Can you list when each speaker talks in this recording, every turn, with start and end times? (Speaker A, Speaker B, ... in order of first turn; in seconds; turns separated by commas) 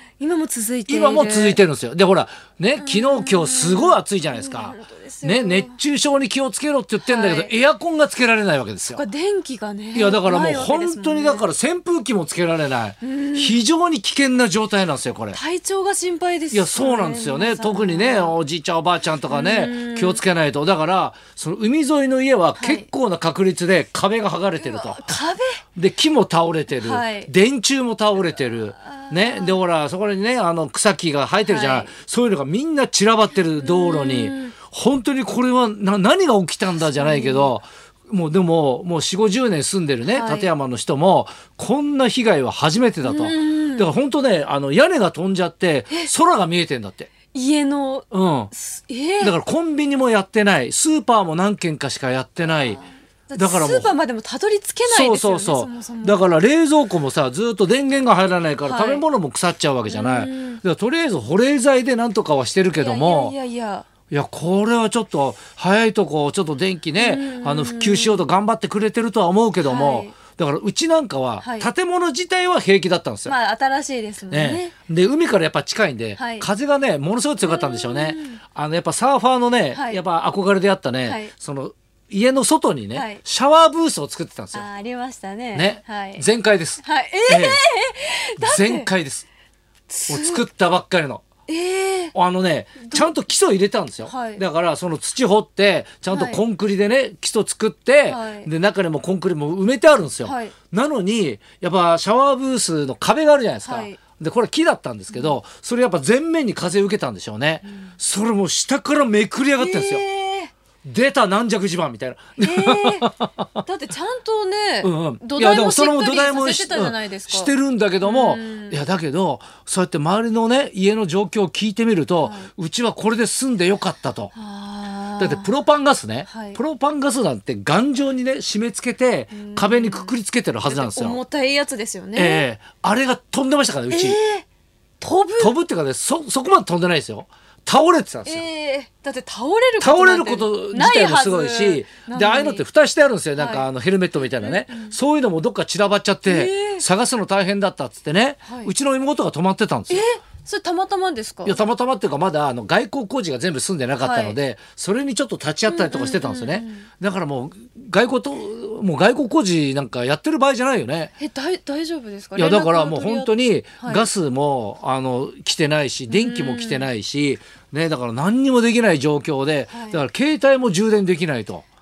Speaker A: 0.2-1.6, Speaker B: 0.9-9.0, Speaker A: 2.8-5.8, Speaker A: 7.0-7.5, Speaker A: 8.9-11.5, Speaker B: 9.9-15.4, Speaker A: 13.0-13.6, Speaker A: 15.3-18.4, Speaker B: 16.5-25.0, Speaker A: 19.3-20.2, Speaker A: 22.6-22.9, Speaker A: 24.6-25.6, Speaker B: 25.8-47.1, Speaker A: 26.7-27.3, Speaker A: 28.8-29.6, Speaker A: 31.4-31.9, Speaker A: 33.6-34.5, Speaker A: 37.0-37.5, Speaker A: 40.1-40.5, Speaker A: 43.0-43.9, Speaker A: 47.3-49.4, Speaker B: 48.1-48.5, Speaker B: 49.2-52.8, Speaker A: 52.4-56.2, Speaker B: 53.4-54.0, Speaker B: 54.9-63.4, Speaker A: 58.6-59.0, Speaker A: 59.9-60.6, Speaker A: 62.8-63.9, Speaker B: 64.1-73.3, Speaker A: 67.0-68.3, Speaker A: 69.6-70.1, Speaker A: 71.4-71.7, Speaker A: 73.2-74.7, Speaker B: 74.3-84.7, Speaker A: 76.2-76.5, Speaker A: 77.4-78.4, Speaker A: 79.7-80.0, Speaker A: 81.0-81.3, Speaker A: 82.9-83.2, Speaker A: 84.5-86.2, Speaker B: 85.5-87.6, Speaker A: 86.8-88.9, Speaker B: 88.4-89.3, Speaker A: 89.9-90.4, Speaker B: 90.1-91.2, Speaker A: 91.5-92.1, Speaker B: 92.1-110.0, Speaker A: 92.8-93.1, Speaker A: 94.0-94.4, Speaker A: 96.1-96.4, Speaker A: 98.1-98.5, Speaker A: 100.2-100.5, Speaker A: 103.6-104.0, Speaker A: 105.1-105.4, Speaker A: 107.6-108.0, Speaker A: 109.6-110.5, Speaker B: 110.8-113.6, Speaker A: 112.4-113.1, Speaker A: 113.7-118.8, Speaker B: 114.8-124.3, Speaker A: 122.2-122.5, Speaker A: 124.3-125.5, Speaker B: 125.2-131.2, Speaker A: 126.3-126.6, Speaker A: 129.3-130.1, Speaker A: 130.7-132.4, Speaker B: 132.2-134.2, Speaker A: 133.9-134.4, Speaker A: 135.0-135.6, Speaker B: 135.4-138.5, Speaker A: 138.2-142.7, Speaker B: 139.8-150.0, Speaker A: 143.4-143.7, Speaker A: 144.4-145.0, Speaker A: 146.2-146.8, Speaker A: 148.5-148.7, Speaker A: 149.9-151.6, Speaker B: 151.4-161.1, Speaker A: 154.0-154.4, Speaker A: 155.7-156.9, Speaker A: 161.2-164.1, Speaker B: 162.4-171.7, Speaker A: 166.1-166.9, Speaker A: 169.7-170.0